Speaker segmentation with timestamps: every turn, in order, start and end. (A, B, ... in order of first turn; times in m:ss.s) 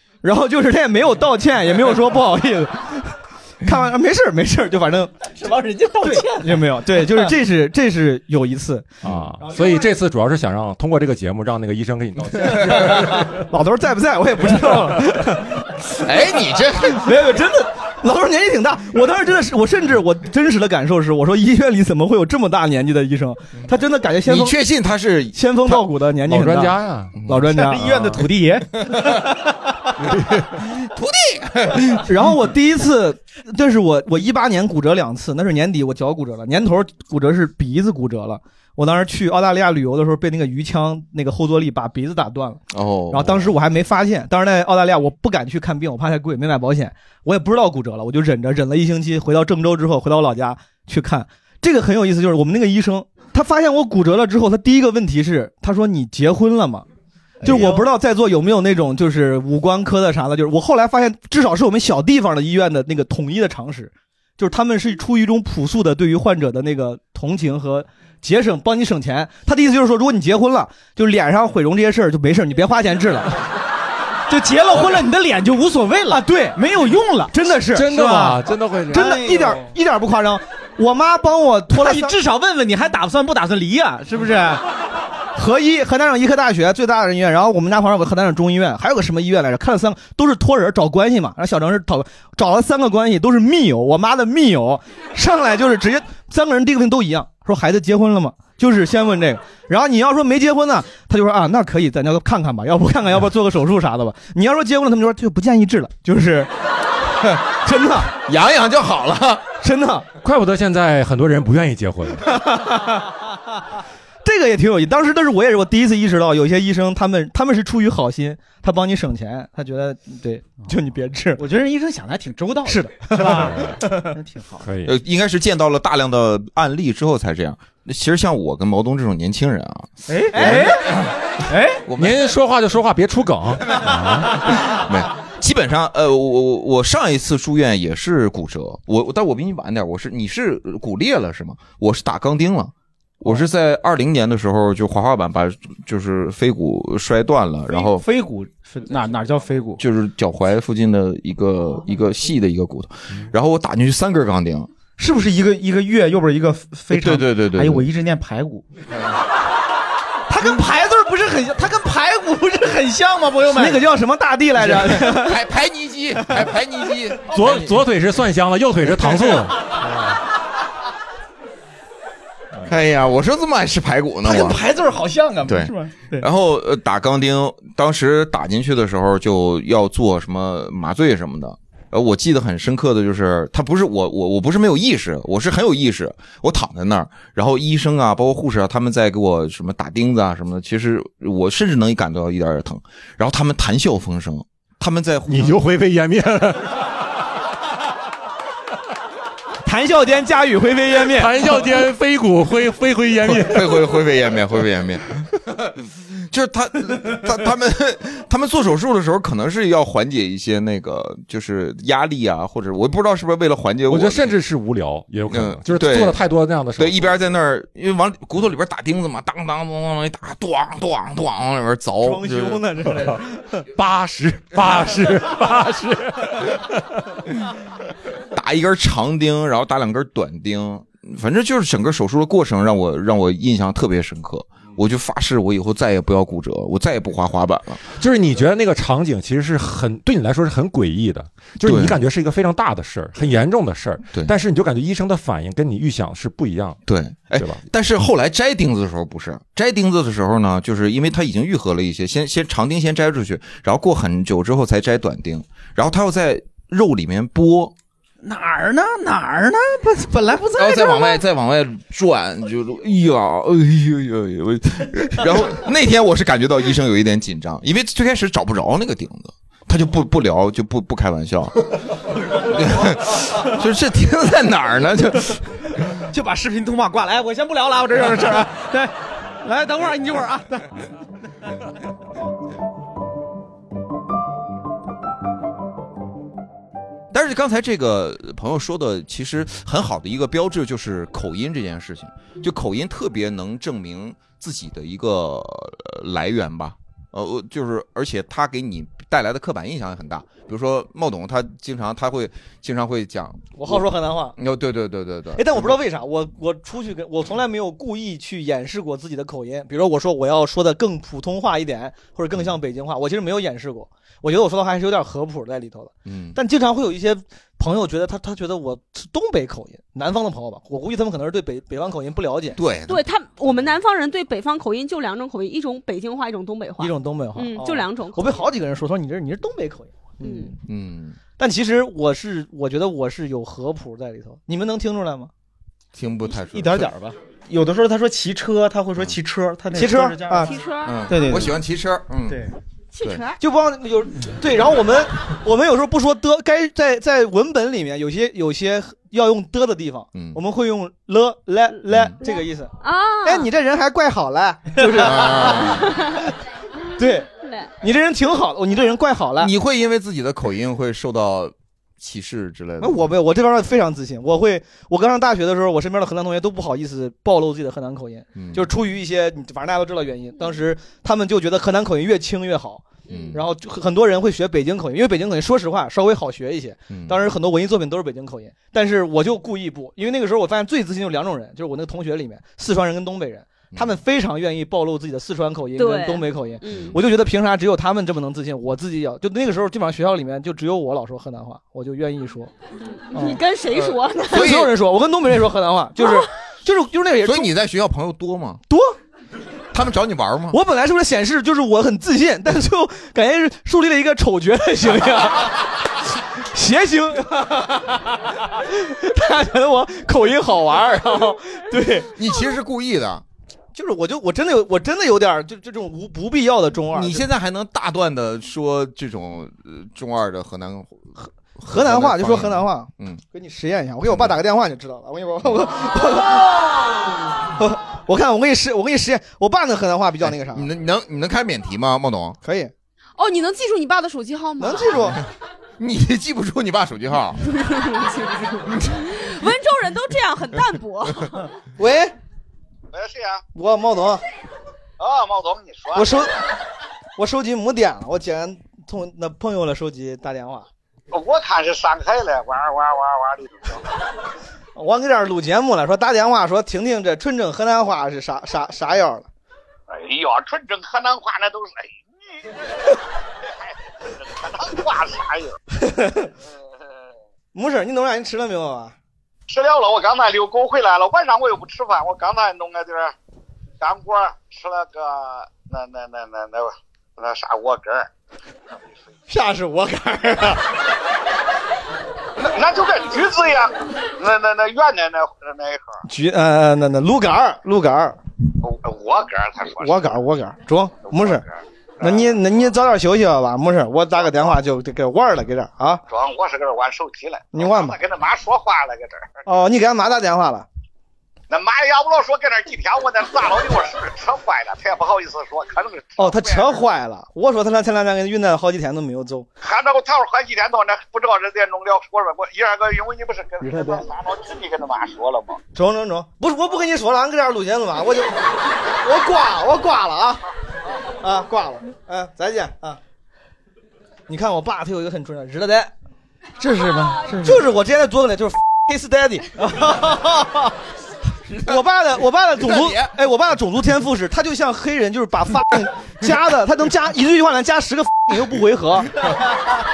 0:00.2-0:05.3 A
0:05.3-0:07.3 B
0:06.0-0:08.9 A
0:09.0-0:13.4 C
0:09.4-0:09.8 B
0:13.3-0:15.6 A
0:16.0-0:17.1 D
0:16.9-0:24.6 A
0:24.2-0:25.8 D
0:25.3-0:26.8 A
0:26.3-0:27.1 C
0:27.2-0:27.5 D
0:27.3-0:27.9 A
0:27.5-0:29.1 B
0:27.8-0:28.1 C
0:30.1-0:30.4 C
0:30.6-0:32.1 D
0:32.0-0:56.8 A
0:42.7-0:43.5 D
0:57.4-0:57.9 B
0:57.4-1:13.4 A
1:14.3-1:17.3 B
1:16.1-1:16.5 A
1:17.3-1:18.3 A
1:17.7-1:19.1 C
1:17.9-1:18.4 B
1:18.9-1:19.7 B
1:18.9-1:22.2 A
1:21.7-1:24.6 B
1:25.3-1:46.5 A
1:47.6-1:48.1 A
1:48.2-1:49.4 D
1:49.6-1:50.1 A
1:50.2-1:52.3 C
1:52.3-1:53.1 A
1:54.2-2:01.4 A
2:01.4-2:04.7 B
2:02.6-2:04.1 A
2:03.2-2:03.8 C
2:04.6-2:04.9 C
2:04.8-2:10.9 D
2:10.1-2:10.9 B
2:10.3-2:10.7 A
2:11.5-2:11.8 B
2:11.9-2:12.2 D
2:12.0-2:14.4 C
2:14.5-2:28.0 D
2:27.7-2:29.8 B
2:29.8-2:34.7 D
2:35.0-2:38.6 B
2:36.9-2:37.9 D
2:40.3-2:40.7 A
2:40.3-2:43.9 B
2:43.5-2:45.4 A
2:45.0-2:47.8 D
2:47.3-2:49.6 C
2:52.6-2:54.6 D
2:54.2-2:56.3 B
2:55.4-3:15.6 D
3:15.3-3:16.8 C
3:19.6-3:21.5 A
3:21.1-3:23.8 C
3:23.3-3:25.3 D
3:26.3-3:34.4 D
3:33.9-3:37.2 C
3:35.3-3:36.2 D
3:36.8-3:42.6 D
3:42.0-3:43.6 A
3:43.7-3:47.0 C
3:48.3-3:57.8 D
3:58.0-4:06.8 C
4:01.6-4:02.0 D
4:06.8-4:17.7 D
4:07.4-4:07.6 C
4:18.2-4:21.2 B
4:20.6-4:31.6 D
4:32.3-4:35.4 D
4:36.1-4:38.9 B
4:39.4-4:40.7 B
4:47.1-5:03.8 D
5:03.6-5:04.4 A
5:04.4-5:05.7 D
5:05.4-5:22.6 A
5:16.0-5:16.4 D
5:22.6-5:23.0 D
5:22.8-5:28.4 E
5:26.8-5:30.6 A
5:30.2-5:30.6 E
5:30.7-5:31.2 D
5:31.4-5:35.3 A
5:35.9-5:36.9 D
5:36.3-5:40.5 B
5:39.7-5:40.5 A
5:40.4-5:41.0 E
5:40.8-5:42.4 D
5:41.1-5:41.6 B
5:42.9-5:43.4 E
5:43.4-5:55.9 A
5:52.2-5:53.5 E
5:55.0-5:55.9 D
5:55.6-5:56.2 E
5:57.0-5:57.3 A
5:57.0-5:57.7 E
5:57.8-5:59.5 A
5:59.4-6:03.1 D
6:02.8-6:32.5 A
6:08.3-6:08.7 D
6:13.1-6:13.4 D
6:16.9-6:17.3 D
6:23.7-6:24.0 D
6:25.8-6:27.0 E
6:26.7-6:27.0 D
6:32.9-6:34.6 E
6:33.1-6:33.4 A
6:33.7-6:34.7 D
6:34.3-6:37.5 A
6:37.2-6:38.6 D
6:38.7-6:39.0 A
6:39.7-6:40.6 D
6:40.5-6:45.8 A
6:46.5-6:52.1 A
6:52.2-6:53.2 D
6:53.7-6:57.2 A
6:56.9-7:03.2 D
7:01.6-7:07.0 A
7:07.5-7:10.7 A
7:10.3-7:12.4 D
7:12.4-7:12.7 A
7:13.2-7:15.1 E
7:14.6-7:15.2 A
7:15.8-7:17.4 D
7:17.4-7:21.5 E
7:21.8-7:22.2 A
7:22.9-7:23.4 F
7:23.5-7:24.2 A
7:25.0-7:26.3 F
7:25.9-7:26.3 A
7:27.2-7:30.6 A
7:31.1-7:33.8 F
7:34.8-7:39.3 A
7:39.9-7:42.9 F
7:43.4-7:45.6 F
7:45.8-7:46.3 A
7:47.5-7:48.9 A
7:49.5-7:53.1 F
7:53.8-7:58.1 F
7:59.3-8:00.6 A
8:02.4-8:06.0 F
8:06.0-8:08.2 A
8:08.6-8:10.2 F
8:09.8-8:11.4 A
8:11.1-8:11.4 F
8:12.0-8:16.0 A
8:12.0-8:12.3 F
8:16.1-8:19.4 F
8:17.5-8:18.0 A
8:19.4-8:20.6 A
8:21.5-8:26.8 F
8:26.2-8:29.5 A
8:29.6-8:35.6 F
8:33.6-8:34.0 A
8:35.7-8:40.4 A
8:41.2-8:43.0 A
8:44.3-8:45.9 A
8:46.6-8:47.6 B
8:47.4-8:50.7 A
8:51.5-8:59.1 A
8:52.6-8:53.1 D